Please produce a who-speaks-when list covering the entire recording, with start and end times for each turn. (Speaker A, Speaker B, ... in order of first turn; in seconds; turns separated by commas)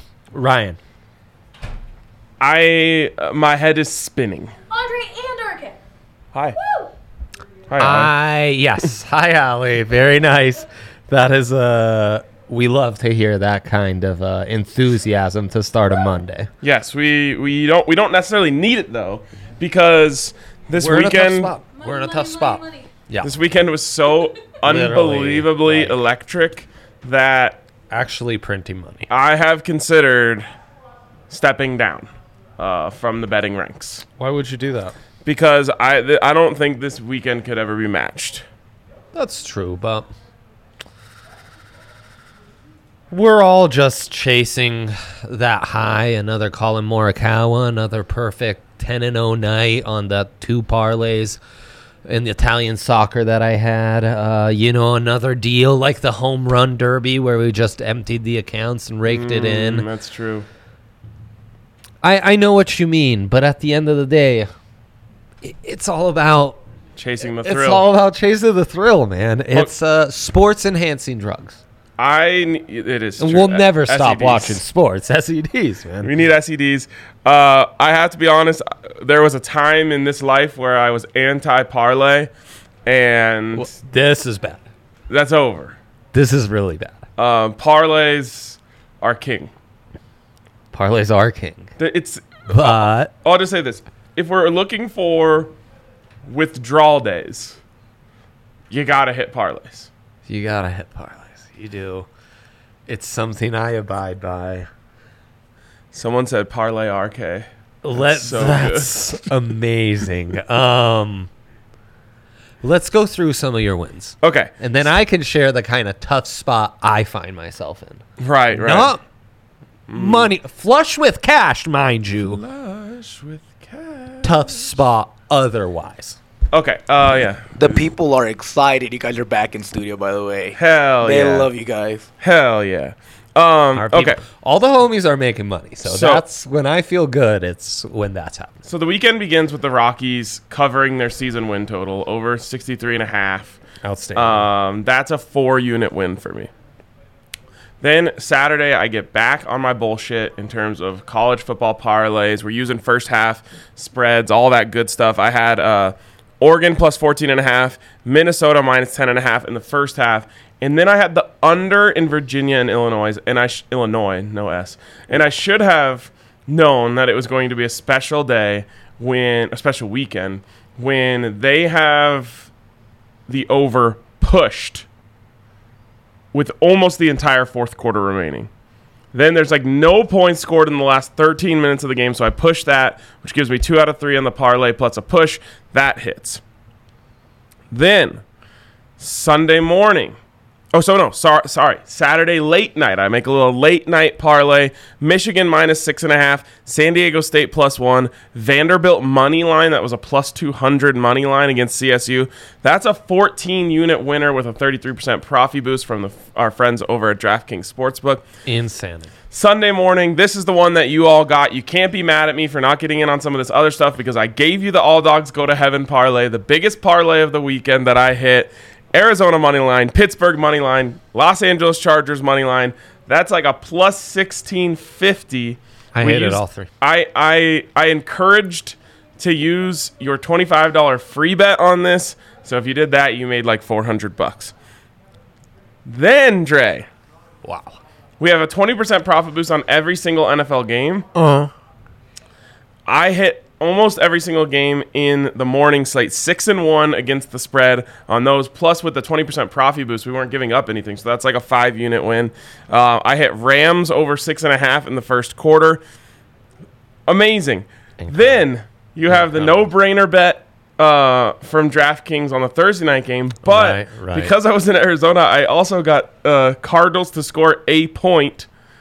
Speaker A: 0.3-0.8, Speaker B: 2.4-4.5, Speaker C: 4.7-5.8, Speaker C: 6.5-6.9, Speaker B: 7.7-8.1, Speaker A: 7.8-16.5, Speaker B: 16.6-21.5, Speaker A: 20.7-23.3, Speaker C: 21.7-22.9, Speaker B: 23.2-27.6, Speaker A: 24.6-26.0, Speaker A: 27.9-29.1, Speaker B: 29.1-30.5, Speaker B: 31.3-34.0, Speaker A: 34.2-34.9, Speaker B: 35.2-38.5, Speaker A: 39.1-40.1, Speaker A: 43.1-51.4, Speaker A: 52.0-59.9, Speaker B: 59.0-60.5, Speaker A: 62.0-64.5, Speaker A: 65.4-66.6, Speaker B: 67.0-67.8, Speaker A: 67.3-71.6, Speaker B: 72.0-74.6, Speaker A: 73.2-76.1, Speaker B: 76.0-82.3, Speaker B: 82.8-83.7, Speaker A: 83.5-84.6, Speaker B: 85.1-85.8, Speaker A: 86.1-87.0, Speaker B: 87.2-89.5, Speaker A: 90.7-91.7, Speaker B: 91.8-95.5, Speaker A: 92.5-93.1, Speaker B: 96.2-97.6, Speaker B: 98.7-99.9, Speaker A: 100.3-102.1, Speaker A: 102.9-104.7, Speaker B: 105.9-109.3, Speaker A: 107.8-111.3, Speaker A: 112.6-119.0, Speaker B: 114.2-114.5, Speaker B: 118.2-118.9, Speaker B: 119.9-120.3, Speaker A: 119.9-122.4, Speaker B: 122.2-124.5, Speaker A: 124.2-126.2, Speaker B: 126.5-127.9, Speaker D: 127.5-132.1, Speaker B: 130.5-131.5, Speaker B: 132.2-134.2, Speaker A: 133.7-138.6, Speaker B: 135.8-136.2, Speaker B: 138.7-143.6, Speaker A: 143.8-144.5, Speaker B: 144.1-146.5, Speaker B: 147.8-172.5, Speaker B: 173.3-174.8, Speaker B: 176.3-178.5, Speaker B: 179.1-186.4, Speaker B: 187.7-188.2, Speaker B: 189.0-190.2, Speaker B: 190.7-208.2, Speaker A: 208.4-209.1, Speaker B: 209.3-234.5, Speaker A: 225.9-226.7, Speaker B: 235.8-236.9, Speaker A: 237.4-237.8, Speaker B: 238.2-241.1, Speaker A: 241.1-241.5, Speaker B: 242.8-255.8, Speaker B: 257.1-268.5, Speaker A: 258.0-258.4, Speaker A: 259.1-259.7, Speaker A: 263.4-264.3